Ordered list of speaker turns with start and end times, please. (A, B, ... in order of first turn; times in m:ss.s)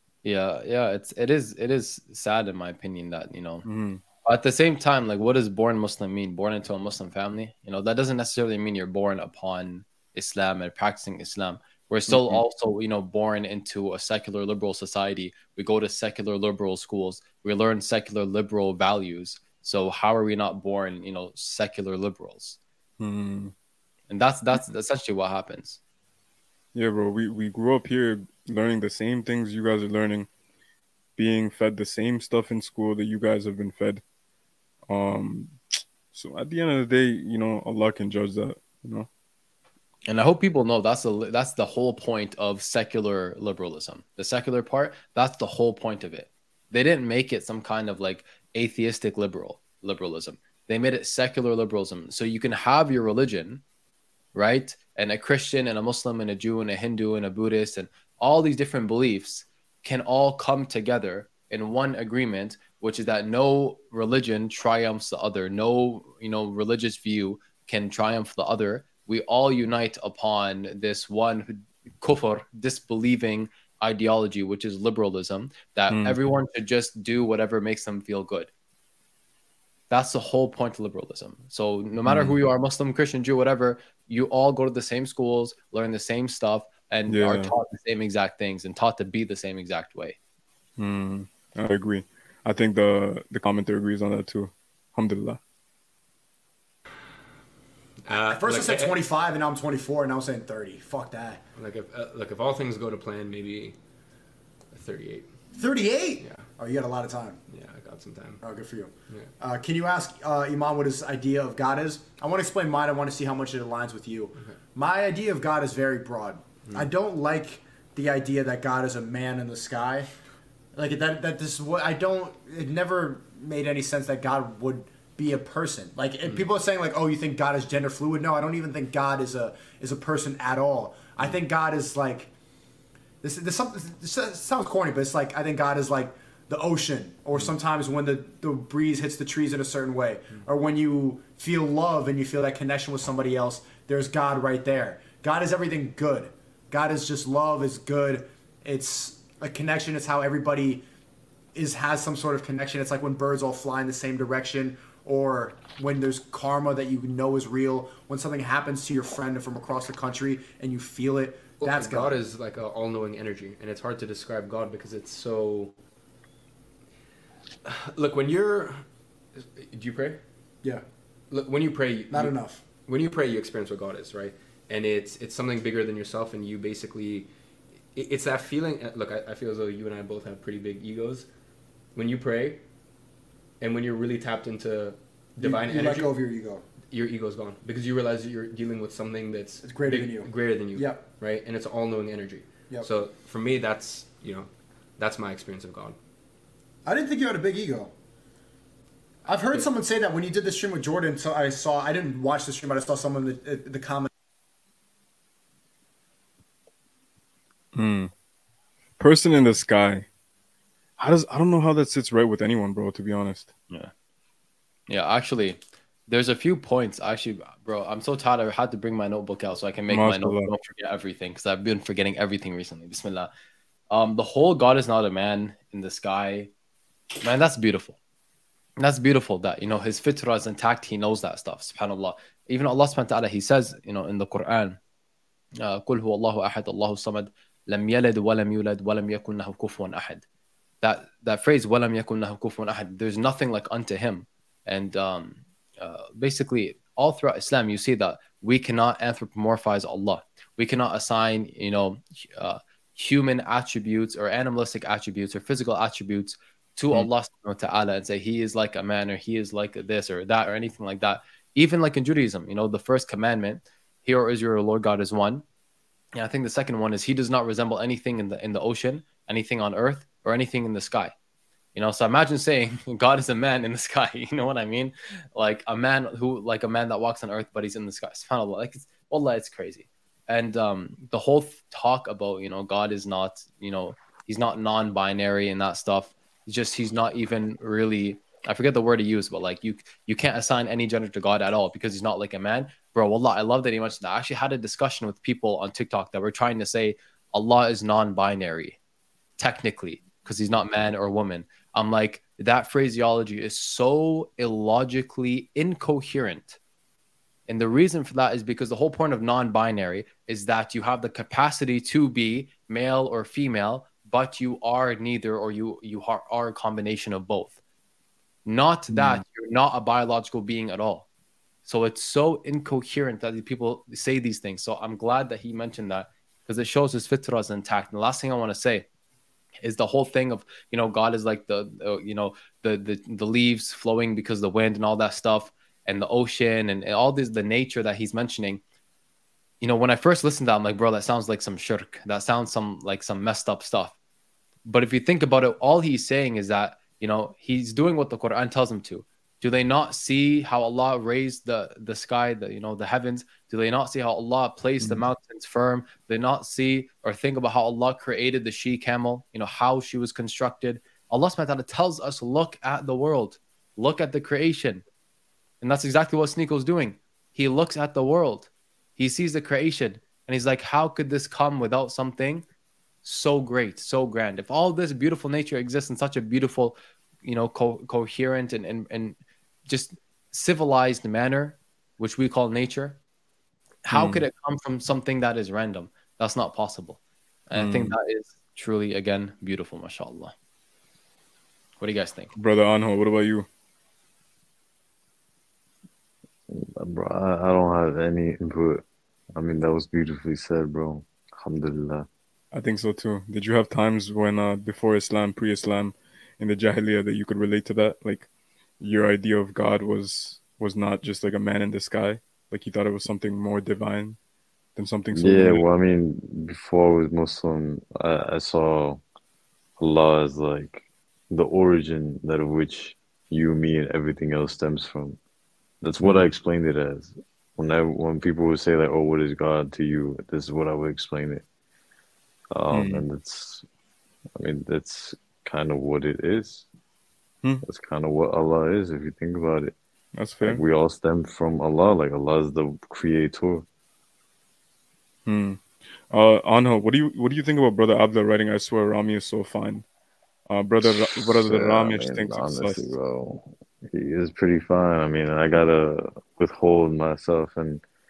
0:00.2-0:03.6 A
0:03.6-0:04.0 B
0:04.2-0:22.6 A
0:12.1-0:12.4 B
0:23.0-0:23.5 B
0:24.1-0:25.8 A
0:26.7-0:30.3 B
0:31.2-0:34.0 B
0:34.9-0:39.1 B
0:40.1-0:53.6 A
0:54.3-1:18.5 A
1:15.9-1:16.2 B
1:19.9-1:30.2 A
1:22.0-1:22.3 B
1:27.1-1:27.5 B
1:30.8-1:35.4 B
1:38.0-1:39.0 C
1:38.2-1:41.4 D
1:41.6-1:43.8 C
1:44.7-1:45.3 C
1:45.5-1:47.4 D
1:46.2-1:46.5 C
1:47.5-1:48.4 C
1:48.4-2:00.1 D
2:00.7-2:12.3 D
2:13.2-2:30.8 D
2:31.5-2:42.2 D
2:41.6-2:45.8 C
2:47.6-2:48.8 C
2:49.3-2:50.2 C
2:51.3-2:57.3 C
2:52.1-2:52.6 D
2:57.9-3:01.3 C
3:01.9-3:02.6 C
3:03.6-3:06.2 C
3:05.4-3:06.6 D
3:06.9-3:16.0 C
3:09.6-3:11.0 D
3:16.8-3:17.9 D
3:19.2-3:24.1 D
3:27.7-3:28.1 B
3:29.0-3:30.0 B
3:31.0-3:33.5 B
3:34.9-3:43.3 A
3:39.9-3:40.5 B
3:43.9-3:46.5 A
3:47.2-3:48.0 A
3:48.8-3:54.8 A
3:55.6-4:00.2 A
4:00.8-4:25.4 A
4:26.2-4:31.1 A
4:31.7-4:58.8 A
4:59.4-5:06.6 A
5:07.5-5:17.6 A
5:18.4-5:21.0 A
5:21.6-5:28.9 A
5:29.6-5:38.6 A
5:39.6-5:43.9 A
5:44.6-6:04.8 A
6:05.6-6:12.4 A
6:13.0-6:23.0 A
6:23.8-6:30.3 A
6:23.9-6:24.2 B
6:27.5-6:28.0 B
6:31.8-6:32.3 A
6:32.3-6:33.5 B
6:36.5-6:38.8 E
6:39.4-6:42.1 E
6:42.5-6:48.3 B
6:48.8-6:54.2 B
6:54.8-6:55.6 B
6:55.1-6:59.0 E
6:59.8-7:05.2 E
7:05.8-7:11.4 E
7:06.0-7:06.3 B
7:12.5-7:13.6 E
7:12.7-7:13.0 B
7:14.4-7:16.6 E
7:17.6-7:19.7 E
7:20.1-7:20.6 B
7:20.4-7:23.6 E
7:25.2-7:29.8 B
7:30.5-7:32.9 B
7:30.8-7:37.8 E